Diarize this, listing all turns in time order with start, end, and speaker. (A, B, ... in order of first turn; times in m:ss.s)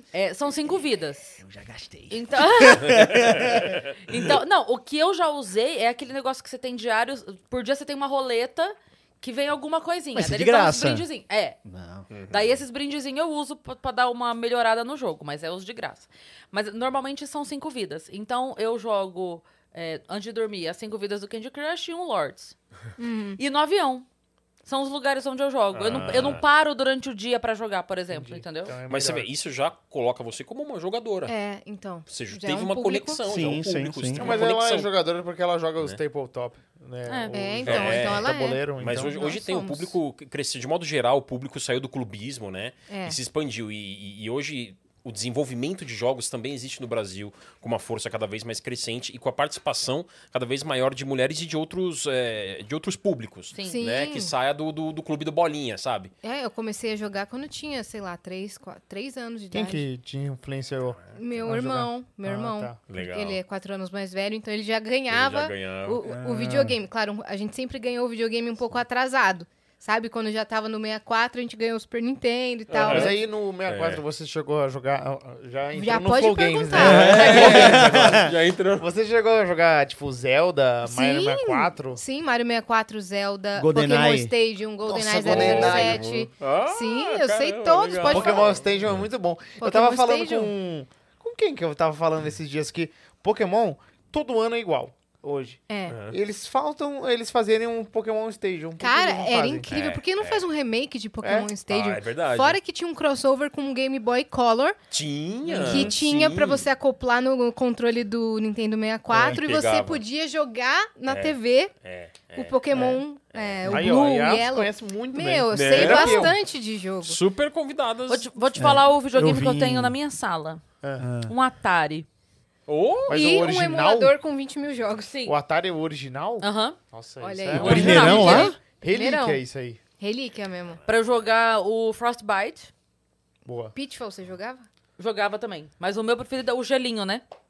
0:00.1-0:01.4 A
0:01.4-0:04.4 B
0:02.1-0:03.2 A
0:04.1-0:11.6 A
0:10.2-0:11.1 B
0:11.6-0:12.1 B
0:12.1-0:12.5 C
0:12.3-0:22.6 A
0:23.0-0:23.4 D
0:23.4-0:24.1 A
0:24.6-0:28.8 A
0:25.7-0:26.4 C
0:28.1-0:29.3 E
0:28.9-0:31.4 C
0:31.3-0:33.2 D
0:32.1-0:34.9 C
0:33.2-0:34.3 B
0:34.2-0:39.3 E
0:37.1-0:37.4 A
0:37.4-0:40.0 D
0:37.7-0:56.1 C
0:42.9-0:43.2 D
0:53.5-0:53.8 A
0:53.6-0:54.3 D
0:56.2-0:59.9 D
0:59.5-1:02.8 E
1:01.1-1:13.2 D
1:02.9-1:03.4 C
1:05.1-1:06.0 C
1:06.1-1:06.7 B
1:06.3-1:06.7 E
1:12.7-1:13.2 C
1:12.8-1:22.0 E
1:13.7-1:14.0 C
1:15.8-1:17.8 D
1:16.8-1:18.3 B
1:16.9-1:18.9 C
1:20.9-1:28.6 D
1:23.6-1:24.3 B
1:24.9-1:26.1 E
1:25.3-1:29.0 C
1:28.0-1:39.7 E
1:29.6-1:30.5 D
1:35.7-1:36.0 D
1:35.9-1:36.2 C
1:38.8-1:44.8 D
1:39.7-1:40.5 C
1:41.2-1:41.5 E
1:41.7-1:42.6 C
1:44.9-1:46.7 C
1:45.5-1:46.0 E
1:45.6-1:51.7 D
1:49.1-1:49.4 E
1:49.2-1:50.0 C
1:51.1-1:52.6 C
1:52.4-1:57.2 D
1:52.7-1:53.0 E
1:53.3-1:53.8 C
1:53.7-1:56.4 E
1:55.5-1:56.4 C
1:57.0-1:58.3 C
1:58.1-2:00.6 A
1:58.6-2:00.0 B
2:00.8-2:01.1 E
2:01.0-2:01.3 B
2:01.2-2:02.1 A
2:02.7-2:03.2 C
2:03.1-2:04.2 E
2:03.1-2:05.2 D
2:05.3-2:09.8 E
2:06.4-2:06.8 A
2:07.2-2:09.4 D
2:07.5-2:08.6 A
2:07.6-2:08.6 B
2:10.0-2:10.8 D
2:10.9-2:12.7 A
2:13.5-2:13.7 E
2:13.7-2:14.7 D
2:15.0-2:17.2 A